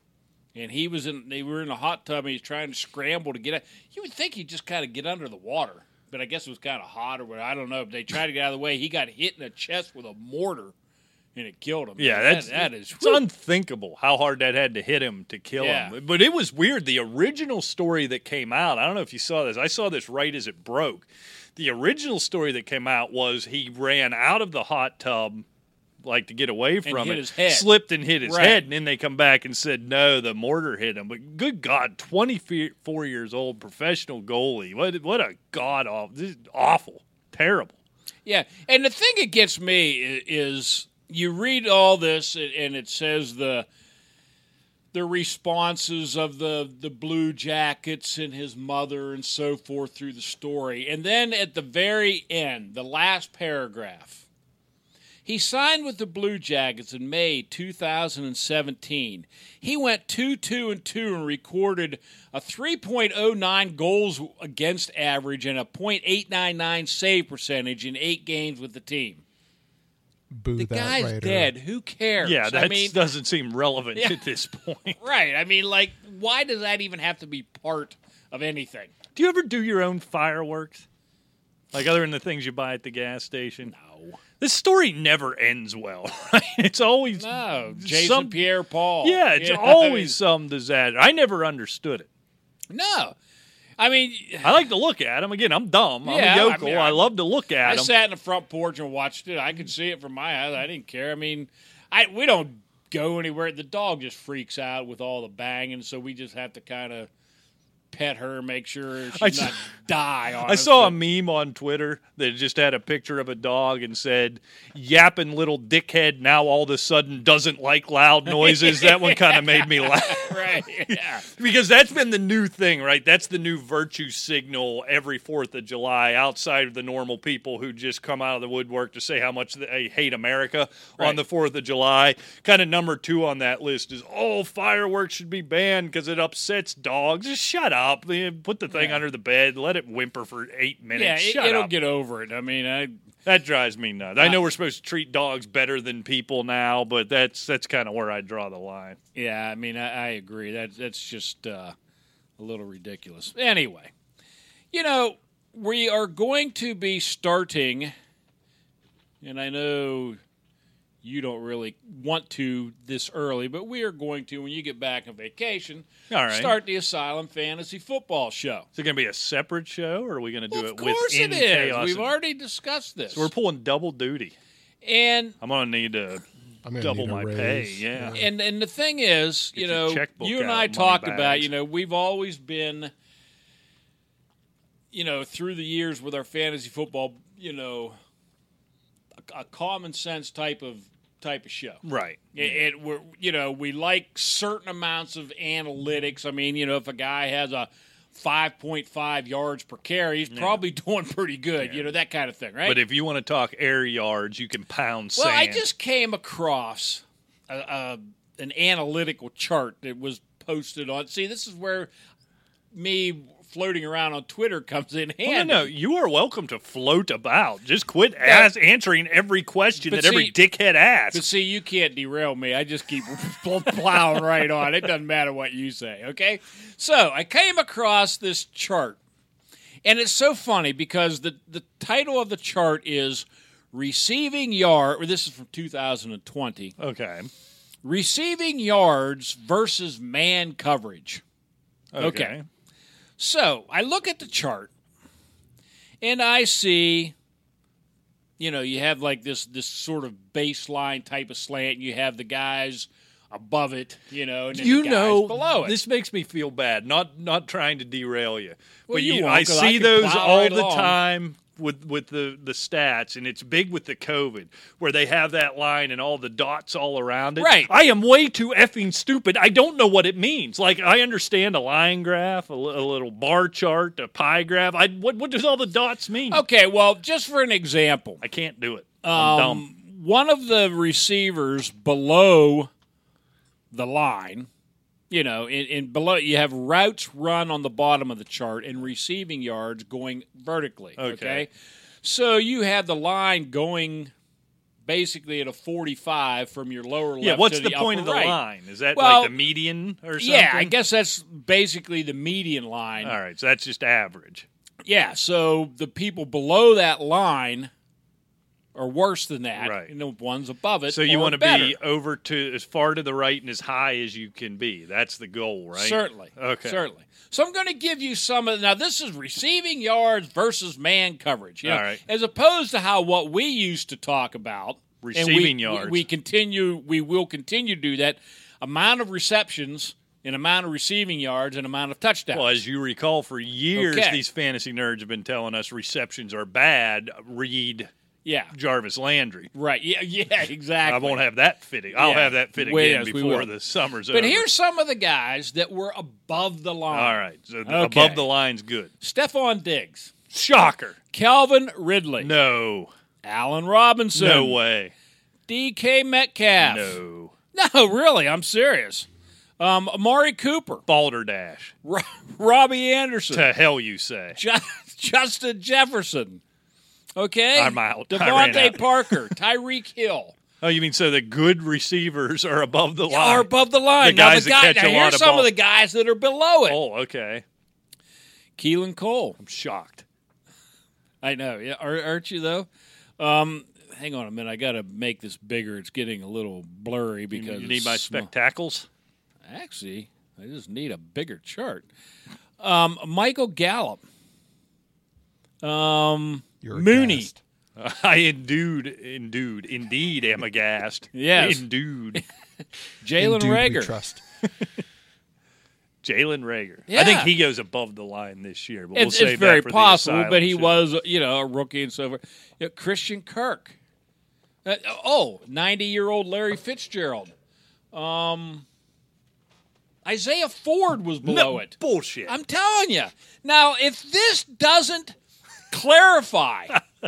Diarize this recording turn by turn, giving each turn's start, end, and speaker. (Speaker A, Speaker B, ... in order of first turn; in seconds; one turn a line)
Speaker A: 0.5-10.7
Speaker A: 11.3-13.2
Speaker B: 12.0-25.4
Speaker A: 15.6-15.9
Speaker B: 26.0-37.8
Speaker A: 26.8-27.7
Speaker A: 28.2-28.6
Speaker A: 38.2-43.7
Speaker A: 44.9-54.2
Speaker A: 55.2-69.2
Speaker C: 70.3-71.5
Speaker A: 70.6-73.0
Speaker B: 72.2-75.0
Speaker A: 75.0-78.9
Speaker B: 79.1-80.8
Speaker B: 81.7-83.7
Speaker A: 83.7-84.2
Speaker B: 84.4-88.5
Speaker A: 87.2-90.1
Speaker B: 89.0-92.1
Speaker A: 92.7-93.2
Speaker A: 93.8-94.5
Speaker B: 94.4-97.9
Speaker A: 96.0-97.0
Speaker A: 97.6-107.1
Speaker A: 107.9-111.0
Speaker B: 109.1-109.5
Speaker B: 110.4-141.7
Speaker A: 118.3-121.2
Speaker A: 138.7-139.0
Speaker A: 140.9-142.9
Speaker B: 143.2-149.0
Speaker A: 149.2-151.7
Speaker A: 152.4-153.9
Speaker A: 154.7-157.9
Speaker A: 159.2-160.2
Speaker A: 161.0-168.7
Speaker B: 166.1-166.6
Speaker B: 168.7-172.1
Speaker A: 170.5-173.3
Speaker B: 173.1-174.3
Speaker A: 174.8-175.4
Speaker B: 175.4-176.2
Speaker C: 176.6-178.3
Speaker B: 176.8-178.3
Speaker A: 178.1-182.9
Speaker B: 179.5-181.5
Speaker A: 184.9-188.0
Speaker A: 189.3-191.8
Speaker B: 191.8-192.7
Speaker A: 192.3-202.8
Speaker B: 200.3-200.6
Speaker B: 201.6-201.9
Speaker B: 202.6-205.6
Speaker A: 205.2-211.9
Speaker A: 212.7-215.7
Speaker B: 215.2-221.2
Speaker A: 218.2-218.5
Speaker A: 219.8-220.3
Speaker A: 221.1-229.0
Speaker A: 229.8-236.7
Speaker B: 236.8-237.3
Speaker A: 237.8-241.2
Speaker B: 241.9-242.4
Speaker A: 242.0-242.3
Speaker A: 243.2-244.7
Speaker A: 246.0-247.1
Speaker A: 248.4-255.7
Speaker B: 254.5-276.4
Speaker A: 258.9-260.9
Speaker A: 267.4-267.7
Speaker A: 276.3-278.2
Speaker B: 278.2-279.6
Speaker A: 279.0-282.7
Speaker A: 283.7-284.5
Speaker A: 285.1-291.5
Speaker B: 291.0-291.4
Speaker A: 292.0-294.1
Speaker A: 294.8-298.4
Speaker B: 297.2-300.7
Speaker A: 298.9-299.3
Speaker A: 300.2-303.2
Speaker B: 303.0-304.4
Speaker A: 304.8-307.7
Speaker A: 308.7-311.8
Speaker B: 309.6-309.9
Speaker B: 310.9-316.8
Speaker A: 315.8-332.6
Speaker B: 321.6-322.0
Speaker B: 325.0-326.1
Speaker B: 332.3-337.9
Speaker A: 333.8-334.2
Speaker A: 338.2-338.5
Speaker B: 338.5-339.5
Speaker A: 339.5-341.2
Speaker B: 340.8-344.5
Speaker A: 341.9-343.5
Speaker A: 344.1-348.2
Speaker B: 346.9-348.9
Speaker A: 349.0-350.1
Speaker B: 350.3-351.0
Speaker A: 351.1-352.3
Speaker B: 352.2-352.9
Speaker A: 353.2-354.6
Speaker B: 354.1-354.9
Speaker A: 355.5-357.0
Speaker B: 356.6-357.3
Speaker A: 357.5-359.1
Speaker A: 359.6-360.8
Speaker B: 360.9-361.7
Speaker A: 361.8-363.5
Speaker B: 363.3-364.4
Speaker A: 364.4-366.4
Speaker A: 367.1-370.4
Speaker B: 367.5-369.2
Speaker B: 370.6-373.5
Speaker A: 373.1-376.8
Speaker B: 374.0-375.5
Speaker B: 376.7-377.4
Speaker A: 378.6-379.4
Speaker B: 379.4-380.0
Speaker A: 381.2-388.3
Speaker B: 387.3-388.9
Speaker A: 389.4-391.9
Speaker A: 392.6-394.0
Speaker A: 395.6-397.3
Speaker C: 396.6-397.4
Speaker B: 397.8-402.2
Speaker A: 401.1-401.6
Speaker A: 403.0-403.9
Speaker C: 403.1-404.2
Speaker B: 406.0-410.8
Speaker A: 406.9-407.3
Speaker A: 408.9-413.8
Speaker A: 414.6-417.3
Speaker A: 417.9-418.6
Speaker A: 420.0-421.7
Speaker B: 421.2-422.4
Speaker A: 422.3-425.1
Speaker A: 425.7-426.8